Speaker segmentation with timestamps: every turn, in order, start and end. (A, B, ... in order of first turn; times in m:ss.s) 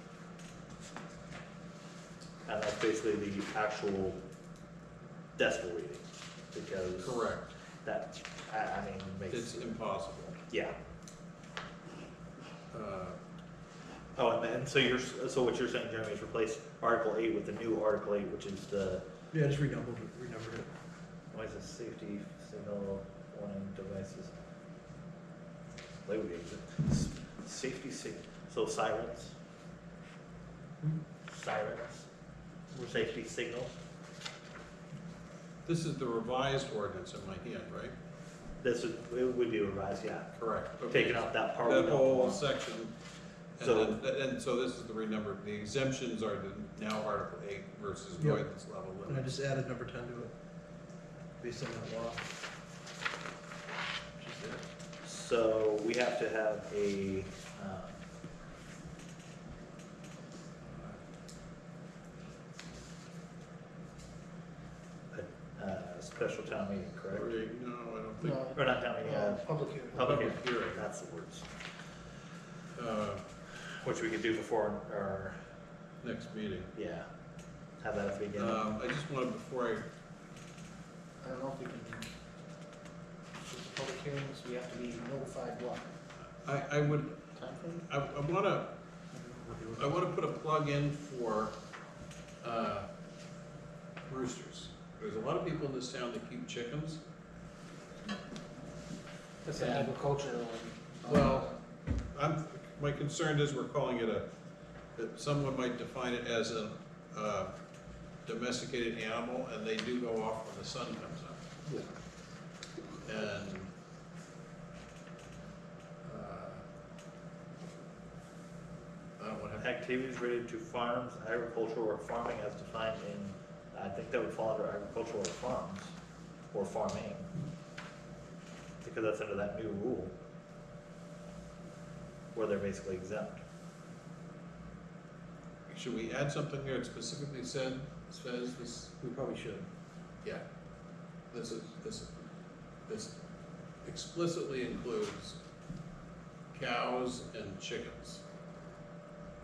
0:02.5-0:04.2 A
0:05.4-0:07.3 A
0:07.0-0:07.5 B
0:07.8-0:09.8 A
0:09.3-0:10.4 B
0:10.5-0:10.7 A
0:12.7-0:13.2 B
0:14.2-0:19.0 A
0:19.3-0:20.7 C
0:21.3-0:24.3 A
0:26.1-0:29.4 A
0:31.3-0:32.1 A
0:32.8-0:33.8 A
0:35.7-0:37.9 B
0:38.6-0:40.3 A
0:40.4-0:42.9 B
0:40.8-0:42.4 A
0:43.6-0:49.3 B
0:43.6-0:44.0 A
0:48.2-0:48.4 C
0:49.1-0:50.3 C
0:51.4-0:52.3 C
0:54.2-0:54.6 C
0:55.0-0:58.0 A
1:00.6-1:01.0 B
1:05.1-1:07.3 A
1:07.1-1:08.6 B
1:08.2-1:10.0 D
1:08.5-1:11.5 A
1:10.0-1:10.8 B
1:12.8-1:13.2 B
1:13.8-1:15.4 A
1:16.0-1:16.7 B
1:16.8-1:17.1 A
1:17.8-1:18.7 A
1:18.4-1:19.9 B
1:21.2-1:22.1 D
1:23.4-1:25.9 D
1:26.4-1:27.2 B
1:27.4-1:27.7 D
1:27.9-1:28.7 B
1:29.1-1:30.0 C
1:29.8-1:31.5 B
1:32.4-1:32.9 B
1:34.1-1:37.0 B
1:39.4-1:41.5 D
1:39.6-1:39.9 B
1:41.0-1:41.5 B
1:42.1-1:44.2 B
1:45.0-1:47.5 B
1:48.2-1:51.4 B
1:53.0-1:53.7 B
1:56.0-1:56.6 B
1:59.2-1:59.6 B
1:59.6-2:06.0 A
2:06.5-2:07.3 A
2:08.8-2:10.1 A
2:12.4-2:13.4 A
2:15.7-2:18.9 B
2:19.0-2:19.7 C
2:21.3-2:22.1 B
2:22.9-2:23.1 B
2:23.8-2:25.4 B
2:26.5-2:28.2 B